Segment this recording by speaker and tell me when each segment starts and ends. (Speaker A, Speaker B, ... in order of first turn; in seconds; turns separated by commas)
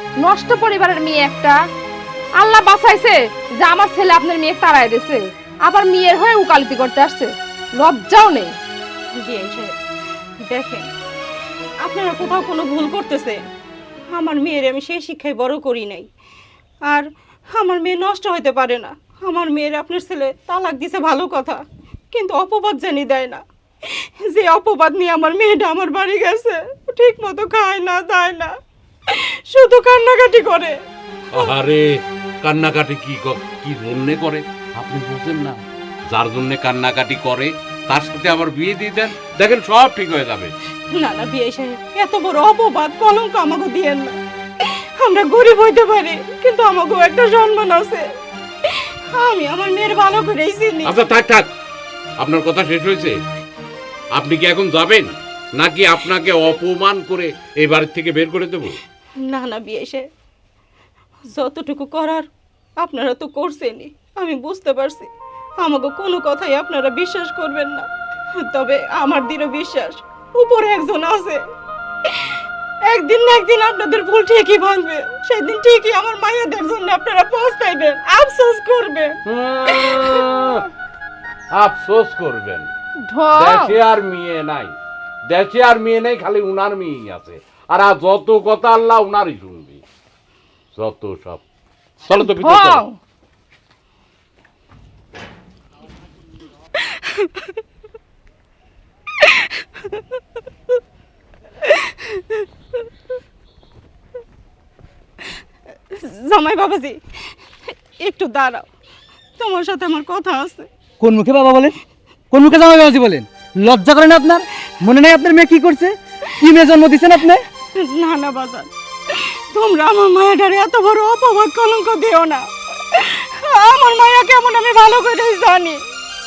Speaker A: 0.2-1.6, Speaker A: 2.4-8.6, Speaker B: 9.2-9.8, Speaker B: 10.5-10.9, Speaker B: 11.8-13.4, Speaker B: 14.1-16.1, Speaker B: 16.9-21.6, Speaker B: 22.1-28.5, Speaker B: 29.1-30.8, Speaker C: 31.3-40.5, Speaker B: 40.9-48.1, Speaker B: 48.6-51.0, Speaker C: 50.9-51.5, Speaker C: 52.2-53.1, Speaker C: 54.1-58.8, Speaker B: 59.2-60.0, Speaker B: 61.3-62.3, Speaker B: 62.8-67.9, Speaker B: 68.4-71.4, Speaker B: 72.1-79.2, Speaker C: 79.2-80.7, Speaker C: 81.5-82.7, Speaker A: 83.0-83.8, Speaker C: 83.3-84.7, Speaker C: 85.3-89.8, Speaker C: 90.8-91.4, Speaker C: 92.0-92.8, Speaker A: 92.1-93.0, Speaker B: 96.7-97.5, Speaker B: 99.2-100.0, Speaker B: 101.6-102.5, Speaker B: 105.9-107.0, Speaker B: 107.7-108.7, Speaker B: 109.4-110.7, Speaker D: 111.0-111.8, Speaker D: 112.3-117.4, Speaker B: 117.8-125.8